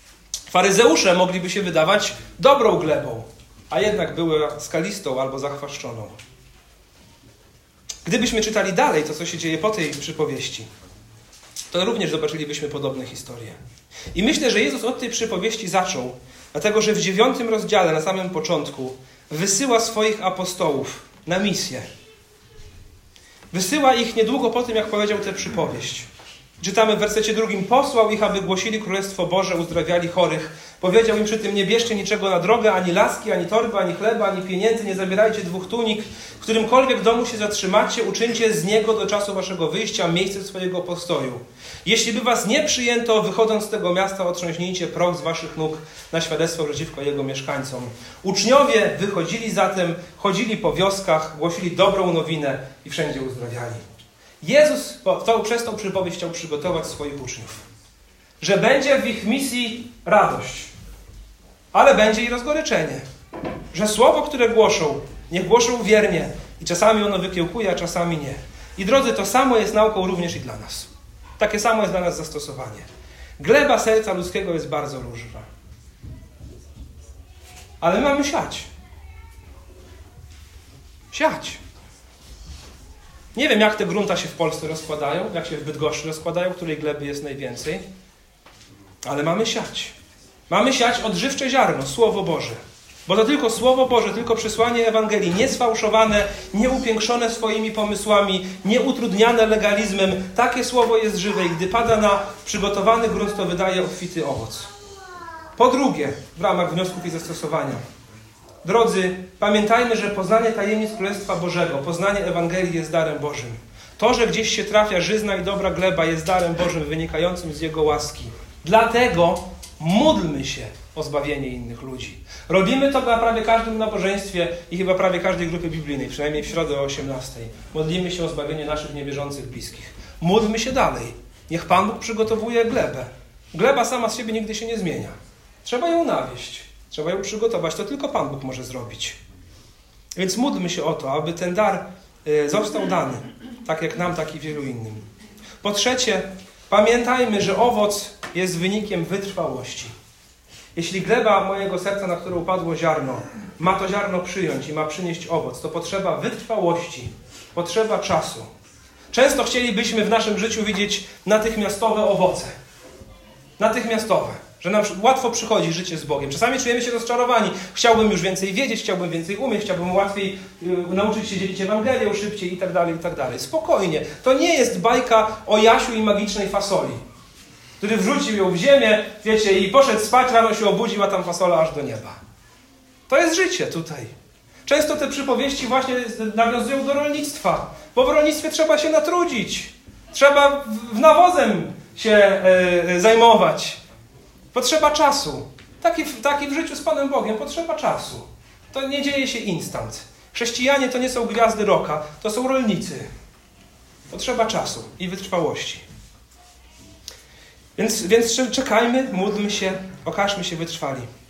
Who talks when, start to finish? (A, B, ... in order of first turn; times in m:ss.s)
0:00.5-0:06.2 A
0:08.0-0:10.7 A
0:11.7-0:13.6 A
0:14.1-0:21.8 A
0:23.5-0:26.1 A
0:26.6-0:53.8 A
0:54.4-0:57.6 A
0:58.4-1:00.7 A
1:01.7-1:03.0 A
1:03.7-1:12.9 A
1:13.4-1:15.4 A
1:17.8-1:18.7 A
1:21.1-1:21.6 A
1:23.3-1:27.8 A
1:29.0-1:29.9 A
1:30.5-1:44.7 A
1:45.6-1:47.8 A
1:48.6-2:19.2 A
2:20.2-2:25.0 A
2:25.6-2:29.9 A
2:30.7-2:38.5 A
2:39.1-2:42.5 A
2:43.6-2:57.0 A
2:57.8-3:02.2 A
3:03.1-3:04.1 A
3:04.6-3:13.8 A
3:14.5-3:23.1 A
3:24.1-3:25.8 A
3:27.8-3:31.1 A